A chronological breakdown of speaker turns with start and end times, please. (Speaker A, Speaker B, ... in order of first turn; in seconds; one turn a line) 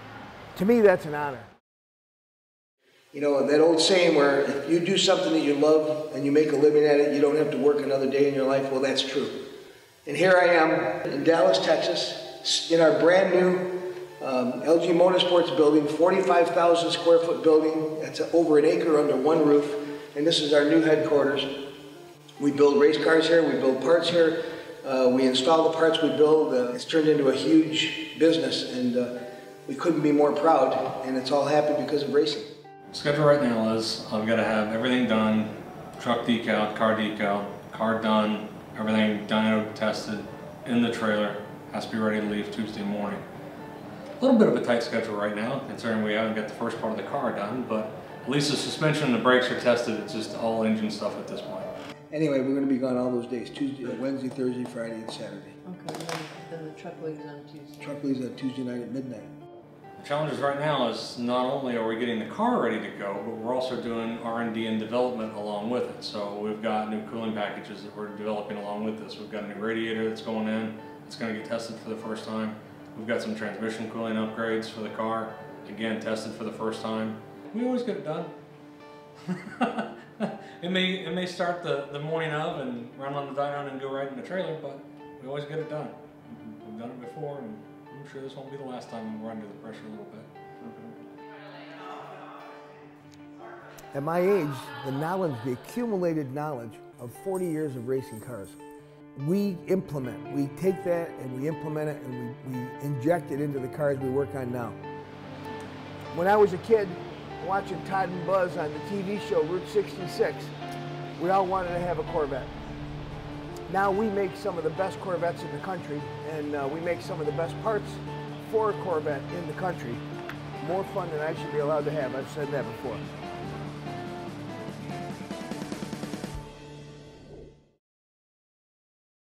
Speaker A: 0.5-1.5
Speaker A: 3.1-9.4
Speaker A: 10.1-21.5
Speaker A: 22.4-29.1
Speaker A: 29.7-32.5
Speaker B: 32.9-43.2
Speaker B: 44.2-51.7
Speaker A: 52.1-55.5
Speaker C: 55.6-57.8
Speaker A: 57.8-59.3
Speaker B: 60.0-78.3
Speaker B: 79.2-90.9
Speaker A: 93.9-98.6
Speaker A: 99.2-104.8
Speaker A: 106.1-110.5
Speaker A: 111.2-112.5
Speaker A: 113.7-120.0
Speaker A: 120.6-123.0